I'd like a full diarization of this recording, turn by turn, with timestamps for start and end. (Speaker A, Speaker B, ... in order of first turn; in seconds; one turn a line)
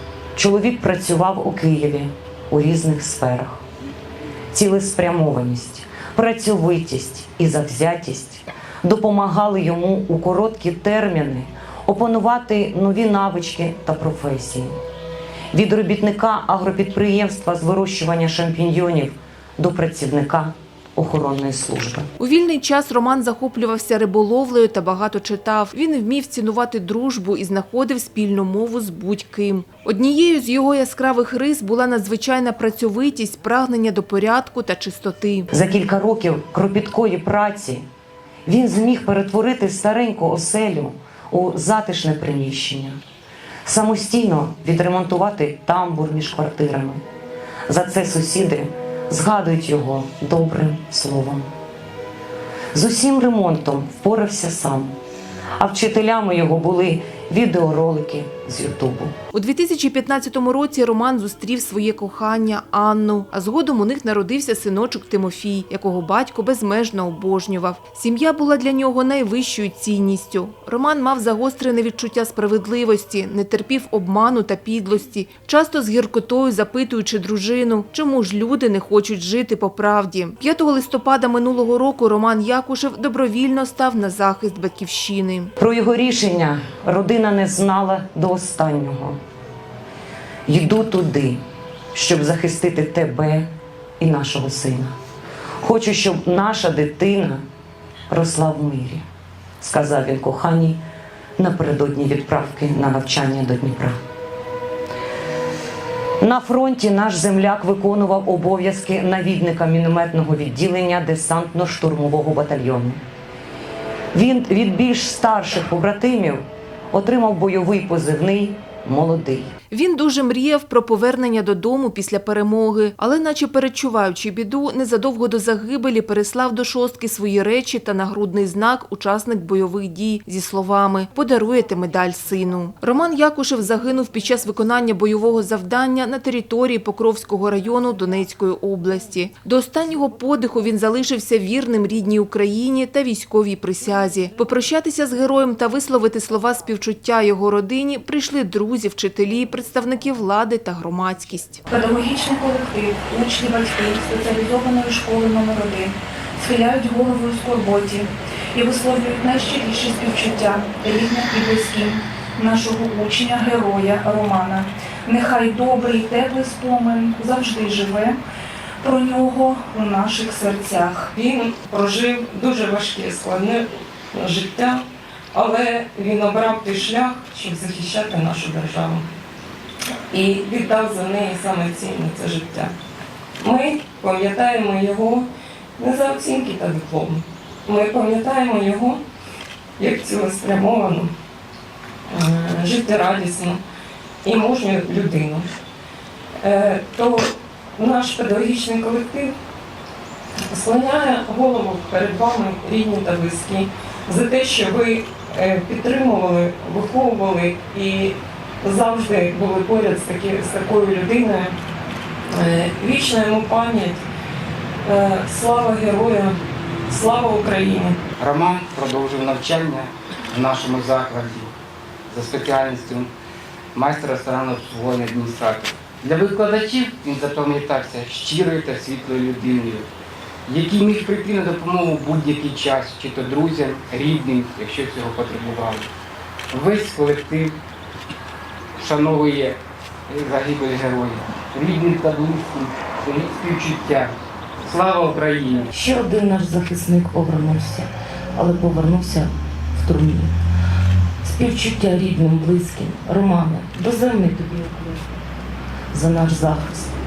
Speaker A: 0.3-3.6
Speaker A: 4.5-14.7
Speaker A: 15.5-22.1
Speaker B: 22.2-35.5
Speaker A: 35.5-37.8
Speaker A: 38.5-43.0
Speaker A: 43.6-47.0
Speaker A: 47.7-51.5
Speaker A: 52.7-55.0
Speaker A: 55.6-59.1
Speaker B: 59.3-85.5
Speaker A: 85.6-89.2
Speaker A: 90.5-91.4
Speaker A: 91.9-93.5
Speaker A: 94.0-94.9
Speaker A: 95.6-97.4
Speaker A: 98.1-99.0
Speaker A: 99.6-100.8
Speaker A: 101.4-104.0
Speaker A: 106.2-113.0
Speaker A: 114.1-119.5
Speaker B: 119.7-151.7
Speaker C: 151.7-168.2
Speaker C: 168.8-171.1
Speaker D: 171.1-179.1
Speaker D: 180.1-182.7
Speaker D: 183.4-189.0
Speaker D: 189.8-191.1
Speaker D: 192.1-193.6
Speaker D: 194.2-195.5
Speaker D: 196.4-199.4
Speaker D: 200.5-211.5
Speaker D: 212.3-214.1
Speaker D: 214.8-218.0
Speaker E: 218.2-221.5
Speaker E: 222.1-223.1
Speaker E: 223.7-229.9
Speaker E: 230.5-235.9
Speaker E: 236.5-237.6
Speaker E: 238.8-244.1
Speaker E: 244.7-245.7
Speaker A: 245.7-250.3
Speaker A: 251.2-255.0
Speaker A: 255.9-256.9